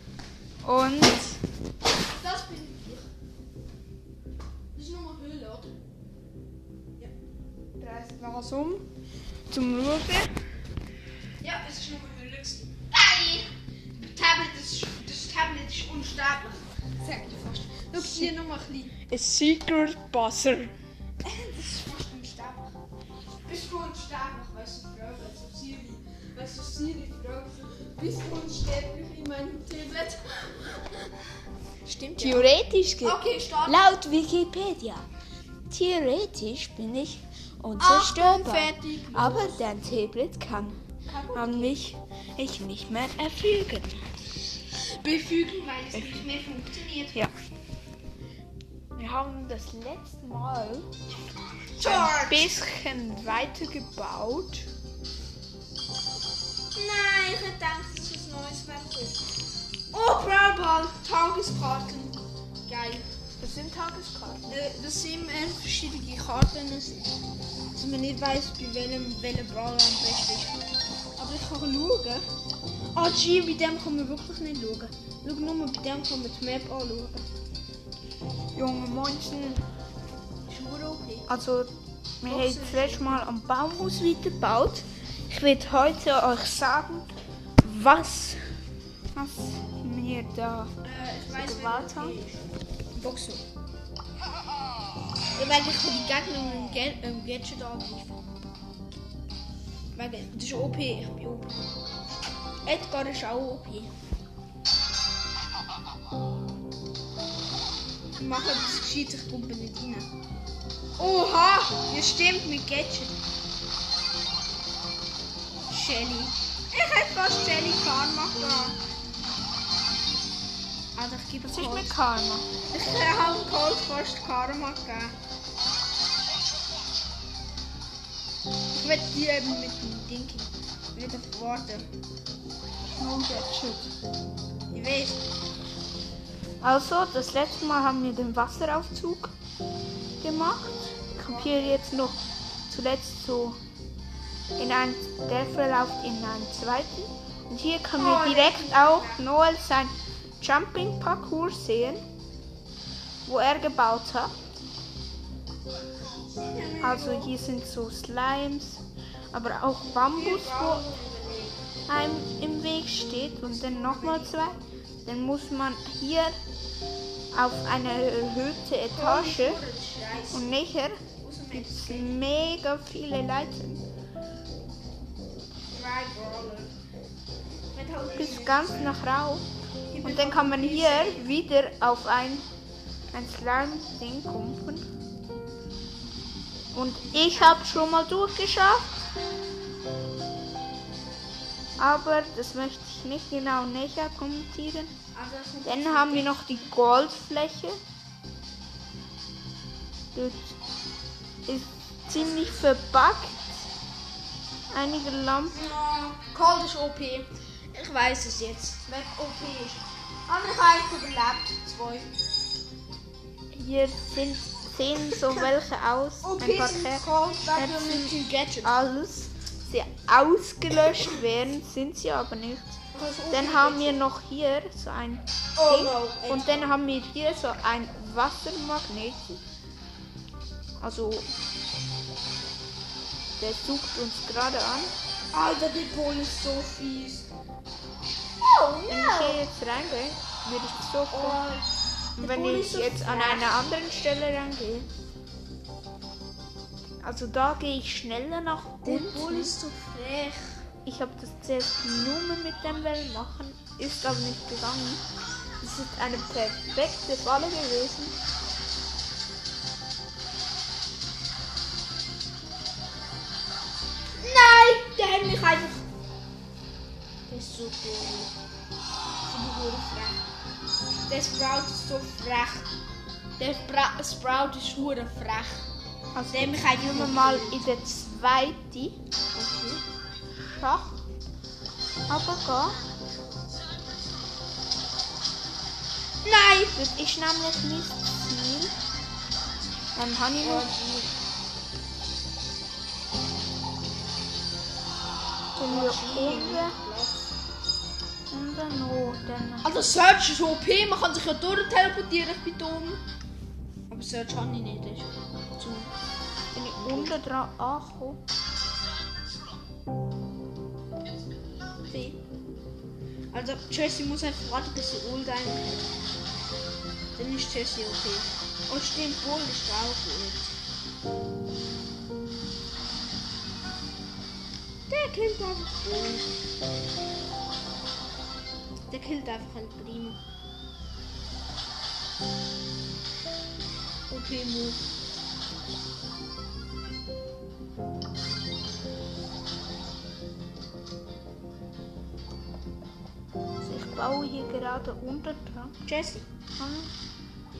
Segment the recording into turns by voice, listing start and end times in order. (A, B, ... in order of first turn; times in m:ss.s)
0:00.6-0:01.4 A
0:02.0-0:03.1 B
0:04.7-0:05.7 B
0:07.8-0:08.8 A
0:09.5-0:10.3 A
0:11.4-0:19.0 B
0:17.9-0:18.3 A
0:19.1-0:20.7 A
0:21.2-0:22.7 B
0:23.4-0:31.2 B
0:31.9-0:33.8 B
0:32.2-0:35.1 A
0:35.7-0:40.8 A
0:37.8-0:39.6 B
0:41.1-0:41.8 B
0:41.3-0:44.0 A
0:44.8-0:47.2 B
0:45.9-0:46.2 A
0:48.9-0:50.9 A
0:51.8-0:52.5 B
0:51.8-0:54.7 A
0:56.7-0:59.2 B
0:59.9-1:03.1 B
1:03.4-1:04.6 A
1:04.5-1:07.1 B
1:07.7-1:10.6 B
1:11.2-1:12.2 B
1:12.9-1:17.3 B
1:18.5-1:19.6 A
1:20.5-1:21.3 B
1:21.3-1:28.5 A
1:22.2-1:23.2 B
1:29.1-1:30.7 A
1:30.8-1:33.4 B
1:31.3-1:32.2 A
1:35.3-1:38.2 B
1:39.9-1:41.7 B
1:42.6-1:43.9 B
1:48.2-1:50.1 B
1:51.0-1:53.2 B
1:55.7-1:58.8 B
2:00.9-2:02.0 B
2:01.4-2:02.5 A
2:02.7-2:05.1 B
2:08.7-2:11.9 B
2:13.0-2:13.9 A
2:14.7-2:15.2 B
2:16.6-2:19.3 A
2:20.2-2:23.6 A
2:21.1-2:22.0 B
2:24.6-2:32.0 A
2:27.9-2:29.2 B
2:33.2-2:34.6 A
2:36.4-2:37.3 B
2:36.8-2:40.8 A
2:40.1-2:41.6 B
2:41.9-2:46.4 A
2:43.4-2:44.6 B
2:47.3-2:49.6 A
2:48.9-2:50.5 B
2:50.3-2:53.8 A
2:51.2-2:52.2 B
2:55.7-2:56.7 B
2:57.7-2:58.9 B
2:58.1-2:59.4 A
2:59.9-3:01.3 B
3:00.0-3:02.5 A
3:03.1-3:04.9 A
3:06.7-3:08.9 A
3:07.0-3:07.7 B
3:11.8-3:14.9 A
3:15.1-3:16.7 B
3:15.6-3:17.8 A
3:20.1-3:20.5 A
3:21.4-3:23.7 A
3:22.1-3:22.7 B
3:24.7-3:25.6 A
3:25.5-3:32.1 B
3:33.5-3:49.4 A
3:35.1-3:35.5 B
3:36.2-3:38.7 B
3:42.9-3:44.0 B
3:45.6-3:46.6 B
3:50.8-3:51.3 A
3:53.4-3:54.9 A
3:55.3-3:57.3 B
3:58.4-3:59.4 B
3:58.9-4:01.4 A
4:01.1-4:01.7 B
4:02.2-4:04.9 A
4:02.2-4:03.5 B
4:07.0-4:09.5 A
4:08.8-4:10.6 B
4:10.8-4:15.0 A
4:15.6-4:18.2 A
4:24.2-4:25.8 B
4:27.3-4:28.3 B
4:29.2-4:30.2 B
4:31.1-4:32.7 B
4:33.4-4:35.7 B
4:36.1-4:39.0 A
4:36.3-4:37.7 B
4:39.3-4:39.8 B
4:40.4-4:41.0 A
4:42.1-4:42.8 A
4:46.2-4:46.8 B
4:46.7-4:48.7 A
4:49.9-4:50.7 A
4:50.4-4:51.1 B
4:55.6-4:56.7 A
4:55.6-4:57.3 B
4:58.3-4:59.7 A
4:59.6-5:03.0 B
5:03.9-5:05.9 B
5:06.5-5:08.2 A
5:06.8-5:07.2 B
5:11.9-5:12.2 B
5:13.3-5:16.0 B
5:17.2-5:20.5 B
5:24.9-5:26.3 B
5:28.9-5:30.2 B
5:34.1-5:34.9 B
5:43.6-5:45.8 A
5:45.9-5:46.3 B
5:46.6-5:46.9 A